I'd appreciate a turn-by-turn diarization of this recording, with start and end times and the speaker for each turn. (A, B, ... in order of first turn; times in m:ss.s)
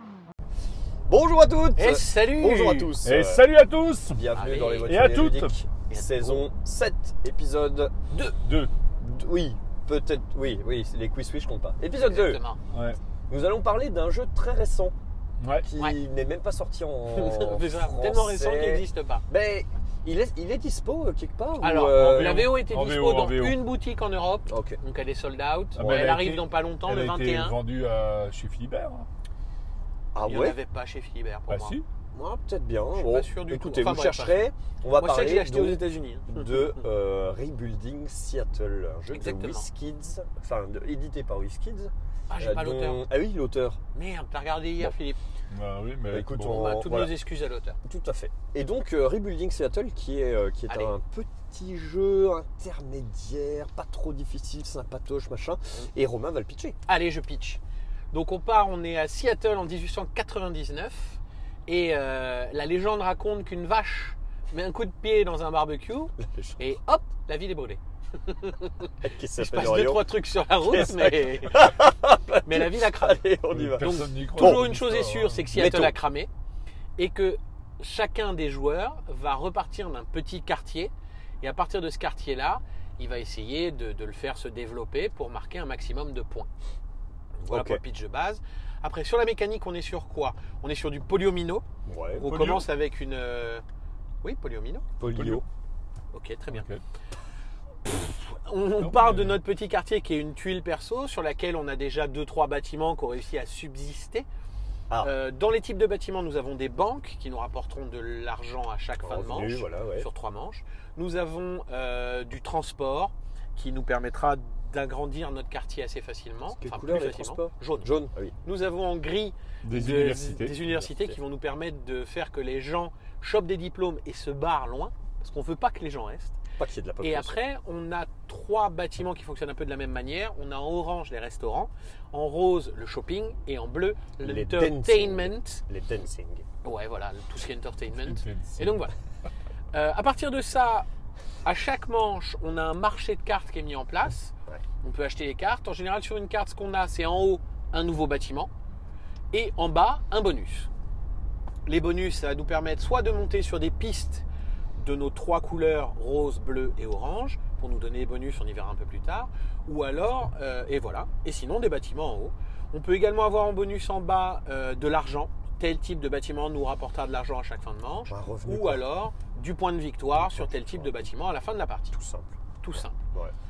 0:01.1-0:03.4 A
0:01.8-0:02.9 B
0:03.0-0:04.3 C
0:04.1-0:08.1 A
0:04.3-0:04.9 B
0:04.9-0:05.6 C
0:05.9-0:06.4 B
0:08.3-0:08.7 C
0:09.0-0:12.4 A
0:12.0-0:12.6 B
0:12.7-0:13.0 C
0:13.3-0:14.9 A
0:15.4-0:15.7 C
0:15.6-0:22.5 A
0:17.1-0:19.2 B
0:21.6-0:27.6 B
0:21.9-0:23.6 C
0:24.5-0:24.8 A
0:25.8-0:29.1 C
0:25.8-0:26.2 A
0:30.2-0:30.6 A
0:30.2-0:31.8 B
0:31.5-0:31.8 C
0:32.1-0:43.8 A
0:32.9-0:34.4 B
0:35.0-0:36.7 B
0:39.1-0:39.7 B
0:42.3-0:43.0 B
0:43.9-0:45.2 B
0:45.5-0:46.7 C
0:46.1-0:47.1 A
0:46.4-0:47.8 B
0:47.8-0:56.8 A
0:50.7-0:50.9 B
0:56.9-0:57.6 B
0:58.1-1:11.8 B
1:06.2-1:06.6 A
1:09.0-1:14.7 A
1:12.4-1:13.3 B
1:13.5-1:15.5 C
1:13.8-1:16.3 B
1:15.5-1:16.0 A
1:17.0-1:26.5 B
1:27.4-1:31.6 B
1:27.5-1:27.8 A
1:31.9-1:32.3 A
1:32.2-1:33.6 B
1:32.3-1:32.7 C
1:34.2-1:34.8 B
1:35.0-1:35.4 A
1:35.0-1:35.4 C
1:36.1-1:36.7 B
1:36.5-1:36.8 C
1:38.2-1:44.3 B
1:38.8-1:39.4 C
1:45.0-1:57.9 B
1:49.0-1:50.1 A
1:56.6-1:58.4 A
1:58.4-2:06.4 B
1:59.6-2:00.6 C
2:00.7-2:01.2 A
2:06.6-2:07.4 A
2:07.0-2:15.6 B
2:14.2-2:16.4 A
2:16.6-2:18.9 B
2:18.0-2:18.8 C
2:19.7-2:20.9 B
2:21.4-2:28.5 B
2:29.3-2:30.7 B
2:31.7-2:51.9 B
2:48.1-2:48.8 A
2:50.1-2:51.0 A
2:51.9-2:52.3 A
2:52.6-2:53.0 B
2:52.9-2:53.3 A